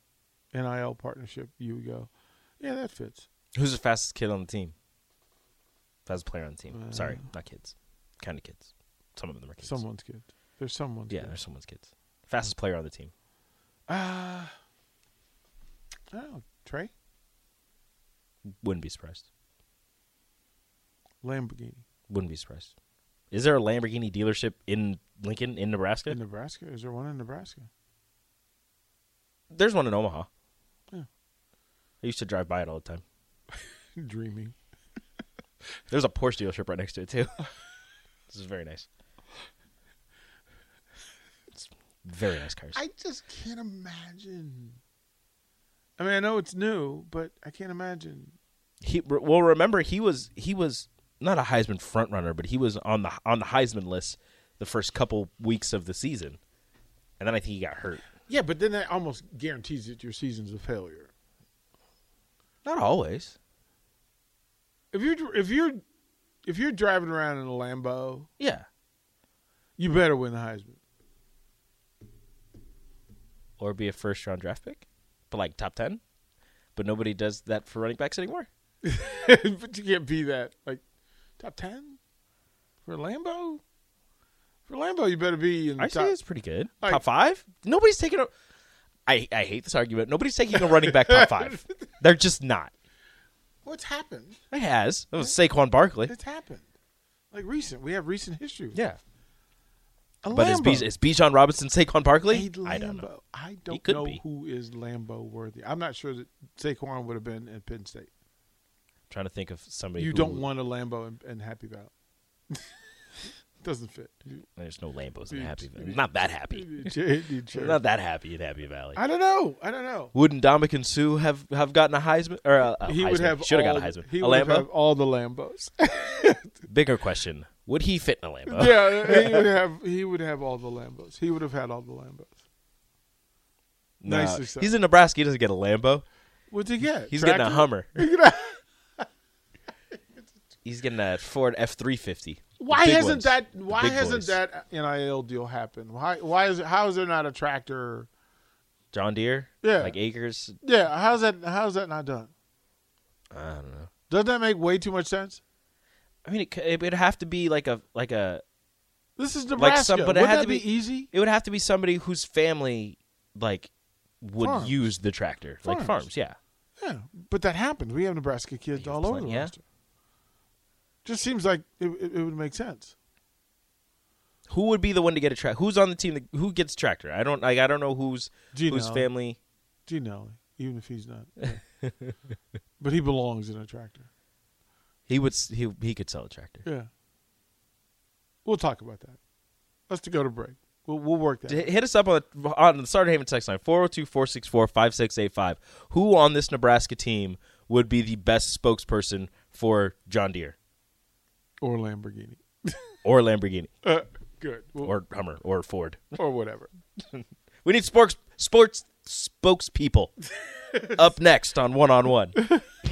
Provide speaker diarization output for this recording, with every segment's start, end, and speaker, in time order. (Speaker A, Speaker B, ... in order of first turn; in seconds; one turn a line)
Speaker A: 0.5-3.3
Speaker B: 3.5-4.7
Speaker B: 6.1-9.8
Speaker A: 6.7-7.3
Speaker A: 9.6-11.4
Speaker B: 11.1-13.1
Speaker A: 13.9-14.5
Speaker A: 16.1-16.9
Speaker B: 18.6-19.3
Speaker A: 21.2-21.8
Speaker B: 22.1-22.7
Speaker B: 23.3-26.2
Speaker A: 26.1-27.7
Speaker B: 29.5-30.3
Speaker B: 32.0-33.0
Speaker A: 34.0-34.5
Speaker B: 35.9-37.5
Speaker B: 38.3-38.9
Speaker B: 41.5-42.8
Speaker A: 42.7-44.8
Speaker A: 46.0-48.4
Speaker B: 48.8-56.4
Speaker B: 57.2-58.0
Speaker A: 58.3-61.1
Speaker B: 62.6-63.4
Speaker A: 64.9-65.8
Speaker A: 66.5-68.3
Speaker B: 68.4-68.7
Speaker A: 69.8-70.8
Speaker B: 73.6-76.0
Speaker B: 76.8-78.5
Speaker A: 78.8-80.8
Speaker A: 81.4-82.0
Speaker A: 82.9-83.6
Speaker A: 84.7-86.2
Speaker B: 85.8-88.3
Speaker B: 89.1-92.7
Speaker A: 90.5-91.7
Speaker A: 93.7-94.4
Speaker B: 94.5-96.1
Speaker A: 96.1-96.7
Speaker A: 97.3-98.8
Speaker B: 98.7-99.0
Speaker A: 100.2-100.9
Speaker B: 100.3-103.1
Speaker A: 102.3-108.1
Speaker B: 103.7-104.2
Speaker B: 109.1-110.5
Speaker A: 110.0-111.9
Speaker A: 113.6-114.4
Speaker B: 114.6-116.9
Speaker A: 115.3-117.8
Speaker B: 117.5-119.0
Speaker A: 119.0-120.1
Speaker B: 120.1-124.7
Speaker A: 122.8-126.5
Speaker B: 126.7-129.5
Speaker A: 128.5-132.4
Speaker B: 134.0-136.1
Speaker A: 134.1-134.7
Speaker A: 136.5-139.1
Speaker B: 137.1-138.1
Speaker B: 140.7-144.4
Speaker A: 142.6-148.1
Speaker B: 148.9-150.6
Speaker A: 149.6-150.0
Speaker A: 150.6-152.3
Speaker B: 153.3-153.9
Speaker A: 154.1-155.4
Speaker B: 156.2-158.4
Speaker A: 159.2-161.1
Speaker B: 159.6-163.7
Speaker B: 164.2-166.4
Speaker A: 164.4-164.9
Speaker A: 165.6-166.1
Speaker A: 166.8-169.6
Speaker B: 168.7-169.5
Speaker A: 171.1-172.9
Speaker B: 174.5-179.4
Speaker A: 178.5-179.1
Speaker A: 179.9-181.6
Speaker A: 182.8-184.1
Speaker B: 185.1-186.7
Speaker A: 188.4-189.2
Speaker A: 189.9-191.7
Speaker B: 191.5-200.6
Speaker A: 201.6-202.9
Speaker B: 203.0-203.7
Speaker A: 203.8-204.9
Speaker B: 204.8-206.2
Speaker A: 206.2-206.7
Speaker B: 207.1-210.1
Speaker B: 210.9-212.4